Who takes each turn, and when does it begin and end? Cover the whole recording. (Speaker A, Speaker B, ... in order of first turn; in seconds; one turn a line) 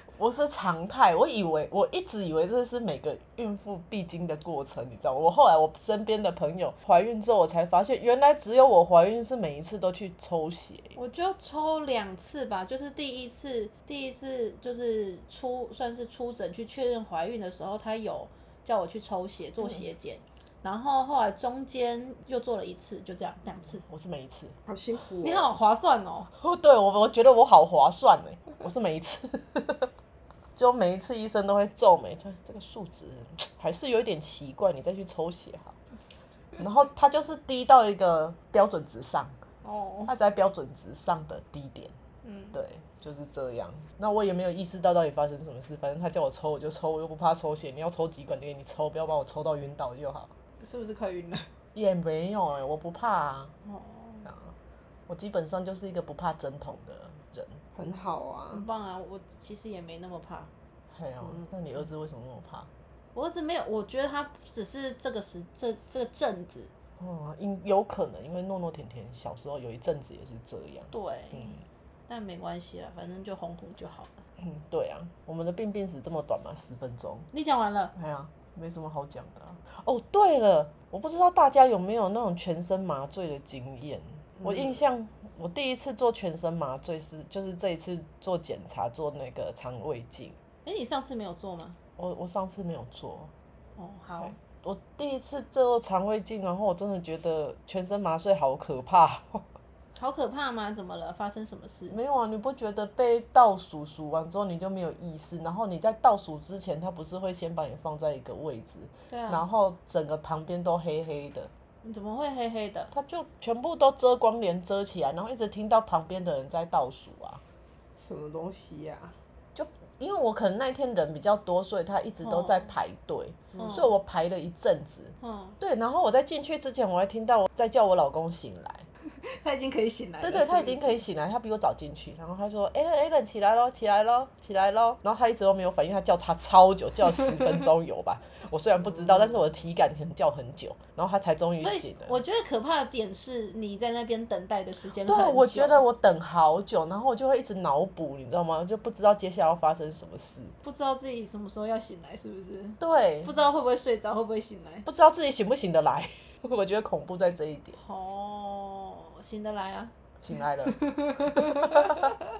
Speaker A: 0.1-11.0
Speaker B: 10.9-23.8
Speaker A: 23.8-24.6
Speaker C: 24.7-25.5
Speaker B: 25.2-26.3
Speaker A: 26.4-29.9
Speaker A: 30.6-35.8
Speaker A: 36.6-39.3
Speaker B: 39.6-40.1
Speaker A: 40.1-41.9
Speaker B: 42.2-42.6
Speaker A: 42.5-50.3
Speaker B: 50.6-51.5
Speaker A: 51.8-53.5
Speaker B: 53.6-54.3
Speaker A: 54.3-54.5
Speaker A: 55.1-57.6
Speaker C: 57.8-58.6
Speaker B: 58.5-60.5
Speaker A: 60.9-62.7
Speaker B: 63.1-66.7
Speaker A: 67.0-71.6
Speaker B: 70.9-71.6
Speaker B: 72.1-74.2
Speaker A: 74.4-77.3
Speaker B: 77.3-77.9
Speaker A: 78.0-90.4
Speaker B: 90.7-91.8
Speaker A: 92.0-93.3
Speaker B: 93.8-94.3
Speaker A: 94.2-99.5
Speaker B: 100.0-102.0
Speaker A: 101.9-111.5
Speaker B: 109.1-109.4
Speaker B: 111.8-112.9
Speaker A: 112.9-117.4
Speaker C: 118.0-119.2
Speaker A: 119.5-128.9
Speaker B: 122.2-122.7
Speaker C: 123.5-123.8
Speaker B: 123.6-123.9
Speaker B: 125.2-125.6
Speaker B: 129.3-131.0
Speaker A: 130.2-142.2
Speaker B: 141.6-145.8
Speaker A: 145.1-150.5
Speaker B: 150.6-154.9
Speaker A: 152.8-153.3
Speaker A: 154.8-157.8
Speaker B: 157.7-159.9
Speaker A: 160.2-162.2
Speaker B: 160.7-162.2